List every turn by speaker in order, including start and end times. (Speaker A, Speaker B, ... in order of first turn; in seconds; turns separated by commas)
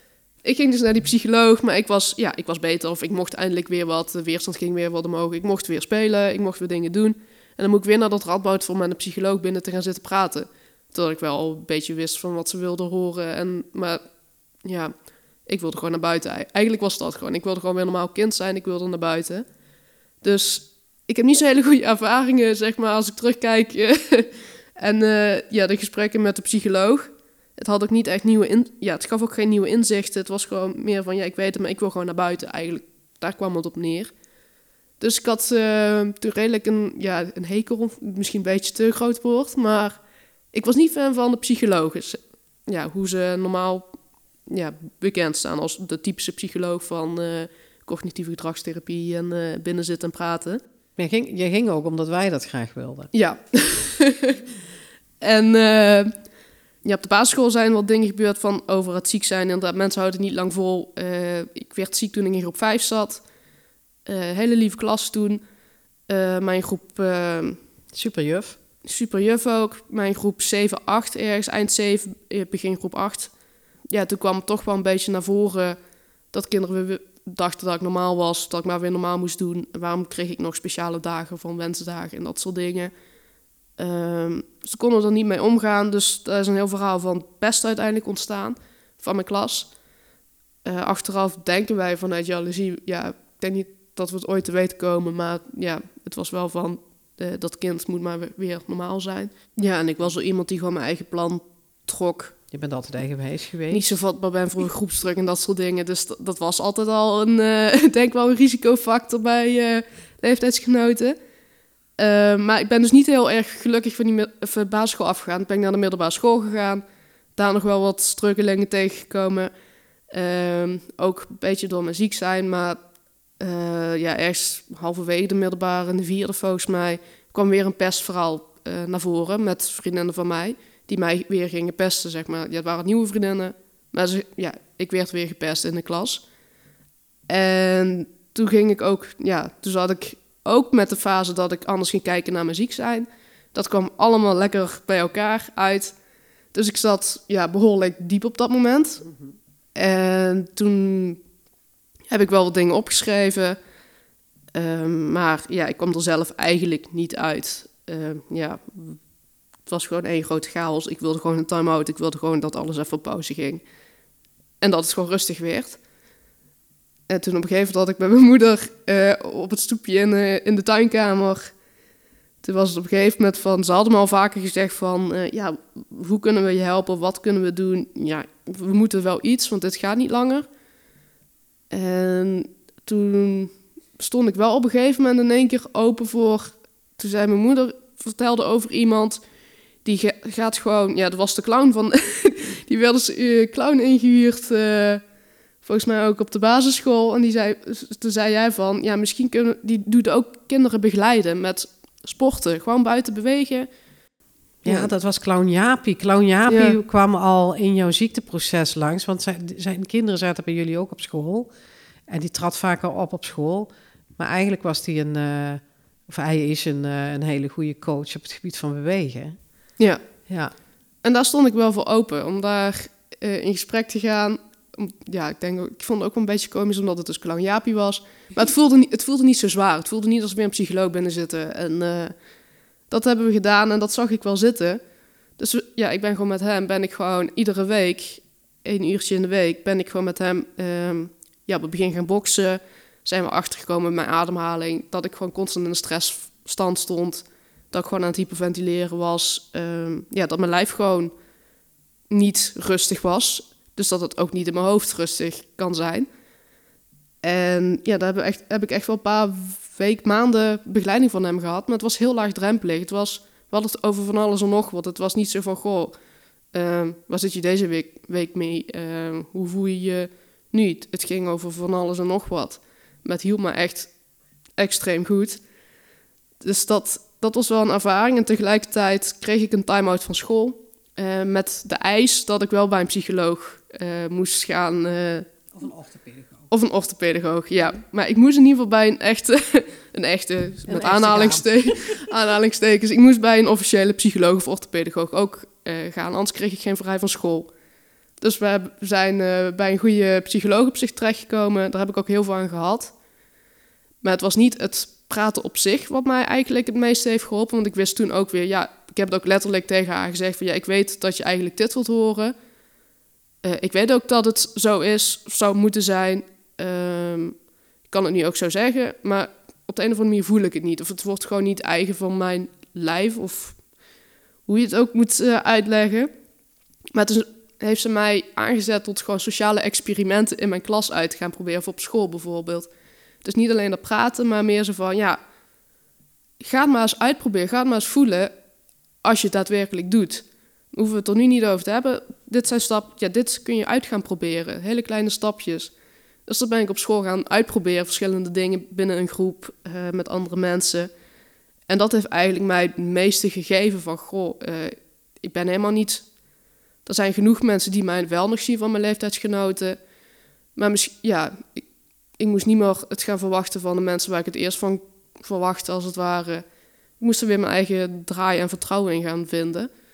Speaker A: 0.4-14.0, Speaker A: 14.6-19.4, Speaker A: 20.2-34.2, Speaker A: 35.0-43.9, Speaker A: 44.5-50.6, Speaker B: 51.0-53.1, Speaker A: 53.1-54.4, Speaker A: 55.2-56.3, Speaker A: 56.8-63.2, Speaker A: 64.0-65.4, Speaker A: 66.1-67.6, Speaker B: 67.9-68.6, Speaker A: 68.8-73.3, Speaker A: 73.9-75.8, Speaker A: 76.3-82.9, Speaker A: 83.8-89.7, Speaker A: 90.6-102.4, Speaker B: 102.5-103.9, Speaker A: 103.7-111.2, Speaker A: 112.0-116.8, Speaker A: 117.3-119.5, Speaker A: 120.1-122.8, Speaker A: 123.4-136.2, Speaker A: 137.3-145.9, Speaker A: 146.5-149.0, Speaker A: 149.7-151.2, Speaker A: 152.1-153.6, Speaker A: 154.5-159.0, Speaker A: 159.7-163.6, Speaker A: 164.6-165.8, Speaker A: 167.1-171.5, Speaker A: 172.4-180.5, Speaker A: 181.7-189.2, Speaker A: 189.8-195.1, Speaker A: 195.6-203.7, Speaker B: 204.6-211.5, Speaker A: 204.6-204.9, Speaker A: 206.5-206.8, Speaker B: 212.1-219.4, Speaker B: 220.3-220.5, Speaker A: 221.0-232.2, Speaker A: 232.9-234.8, Speaker A: 235.4-251.1, Speaker A: 252.1-256.1, Speaker A: 257.2-266.0, Speaker A: 266.5-273.9, Speaker A: 274.6-275.4, Speaker A: 276.4-285.3, Speaker B: 285.5-286.5, Speaker A: 286.5-297.5, Speaker B: 290.6-292.0, Speaker A: 298.2-302.9, Speaker A: 304.0-312.3, Speaker A: 313.4-323.6, Speaker A: 324.5-326.1, Speaker A: 326.9-332.7, Speaker A: 333.2-335.2, Speaker A: 336.4-338.3, Speaker A: 339.0-345.7, Speaker A: 346.2-350.9, Speaker A: 351.7-356.1, Speaker A: 356.8-359.8, Speaker A: 360.5-361.6, Speaker A: 362.2-369.7